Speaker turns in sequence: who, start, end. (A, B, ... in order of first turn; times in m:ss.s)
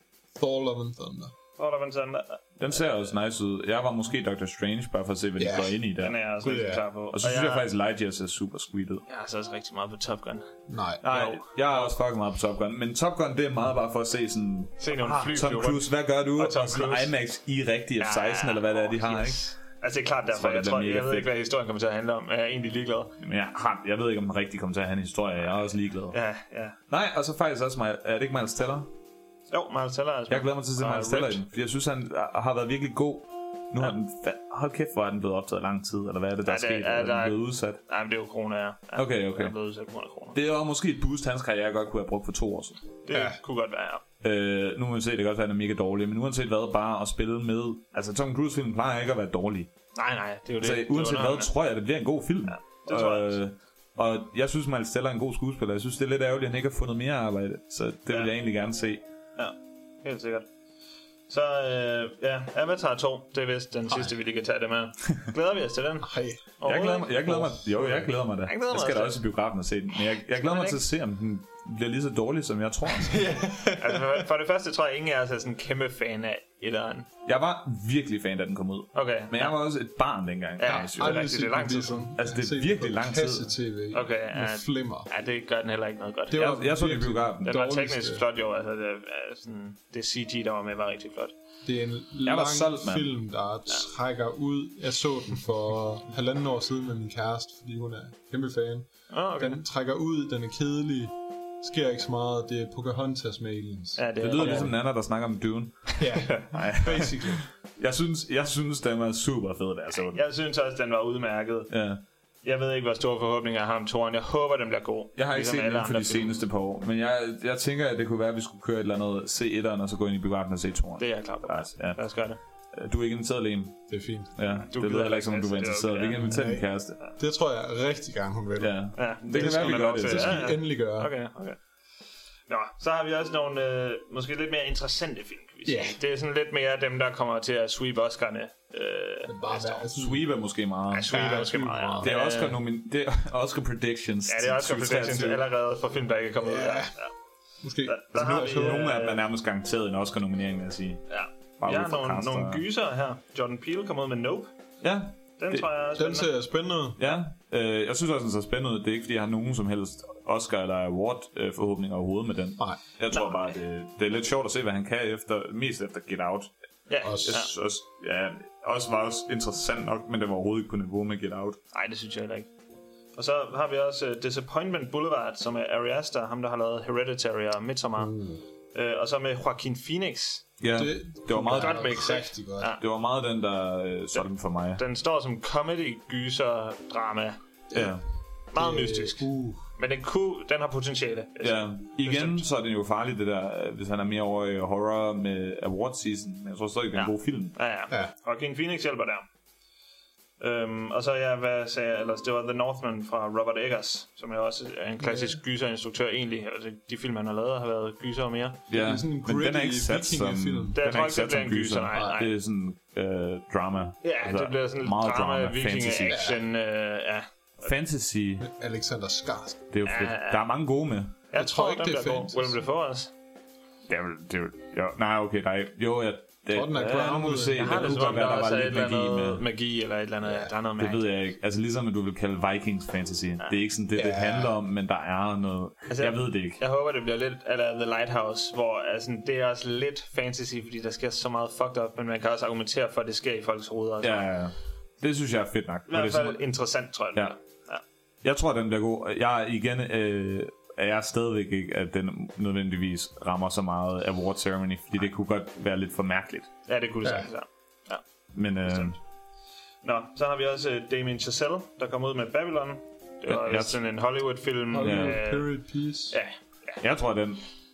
0:00.4-0:01.3 A
0:01.6-0:02.8 B
0:02.6-0:06.2 C
0:05.4-0:05.8 A
0:06.0-0:07.7 B
0:06.4-0:06.9 A
0:07.1-0:09.0 C
0:09.1-0:11.9 B
0:10.7-0:11.0 A
0:11.0-0:19.4 C
0:14.8-0:17.1 B
0:18.0-0:23.2 B
0:20.3-0:21.3 C
0:23.2-0:26.2 C
0:26.1-0:26.8 B
0:26.9-0:28.9 C
0:29.5-0:31.4 B
0:30.3-0:37.8 C
0:36.4-0:40.4 B
0:39.0-0:39.5 C
0:40.3-0:42.8 C
0:43.1-0:44.0 B
0:43.1-0:43.4 A
0:44.2-0:49.7 C
0:50.0-0:51.5 B
0:50.6-0:59.0 C
0:52.5-0:53.4 B
0:59.4-1:00.5 B
1:01.3-1:07.5 B
1:03.9-1:04.1 A
1:06.0-1:06.5 A
1:06.6-1:13.2 C
1:07.3-1:08.1 A
1:08.4-1:09.2 B
1:10.3-1:10.8 B
1:13.0-1:14.2 A
1:13.8-1:17.1 B
1:17.3-1:21.2 C
1:18.9-1:19.6 B
1:20.6-1:22.1 B
1:20.6-1:25.1 A
1:22.2-1:23.5 C
1:23.9-1:26.7 B
1:26.3-1:28.2 A
1:26.3-1:27.6 C
1:27.4-1:31.3 B
1:31.6-1:44.7 A
1:32.2-1:33.1 C
1:39.1-1:39.6 B
1:44.0-1:44.7 B
1:44.2-1:50.2 C
1:46.0-1:47.5 A
1:50.1-1:51.7 B
1:51.7-1:52.0 C
1:52.4-1:56.4 B
1:55.2-2:02.0 C
2:01.0-2:02.4 B
2:02.7-2:07.0 C
2:03.9-2:04.3 A
2:04.7-2:06.3 B
2:06.2-2:06.6 A
2:07.2-2:11.1 A
2:08.6-2:10.5 C
2:09.0-2:11.6 B
2:12.5-2:19.9 B
2:15.7-2:16.0 A
2:19.3-2:20.2 A
2:19.9-2:21.5 C
2:20.9-2:22.6 B
2:21.1-2:22.1 A
2:22.0-2:25.4 C
2:24.3-2:27.1 B
2:26.4-2:26.9 A
2:27.6-2:28.9 A
2:27.8-2:29.2 B
2:28.2-2:31.0 C
2:31.1-2:34.5 B
2:31.6-2:32.6 C
2:34.8-2:35.7 C
2:35.4-2:36.3 B
2:36.0-2:37.0 A
2:37.0-2:46.5 C
2:46.9-2:47.5 B
2:47.0-2:47.3 A
2:47.2-2:51.6 C
2:51.7-2:52.5 B
2:53.2-2:58.2 B
2:58.0-2:58.4 A
2:58.7-3:00.5 B
3:00.6-3:02.0 C
3:00.8-3:02.7 A
3:01.5-3:02.8 B
3:02.8-3:04.8 C
3:04.1-3:07.4 B
3:07.7-3:08.0 A
3:07.7-3:08.0 C
3:08.5-3:12.4 B
3:08.6-3:09.7 A
3:11.4-3:17.6 C
3:16.9-3:19.2 B
3:20.4-3:28.6 B
3:25.0-3:25.4 A
3:28.7-3:36.2 C
3:28.7-3:30.8 A
3:30.8-3:32.3 B
3:31.9-3:32.2 A
3:34.0-3:37.3 B
3:36.1-3:36.4 A
3:37.6-3:38.5 C
3:38.4-3:39.6 A
3:39.7-3:41.2 C
3:39.9-3:40.4 B
3:41.3-3:43.1 B
3:41.3-3:42.6 A
3:43.9-3:49.4 C
3:46.5-3:48.0 A
3:47.6-3:51.1 B
3:50.2-3:50.5 A
3:50.8-3:56.6 C
3:54.0-3:54.6 A
3:55.9-4:04.4 B
4:04.0-4:06.4 C
4:05.9-4:07.8 B
4:08.2-4:16.5 C
4:16.7-4:18.0 B
4:18.3-4:19.0 C
4:18.6-4:19.0 B
4:19.8-4:25.5 B
4:23.3-4:23.8 C
4:24.7-4:26.2 A
4:24.8-4:25.2 C
4:26.1-4:26.8 B
4:26.8-4:27.4 C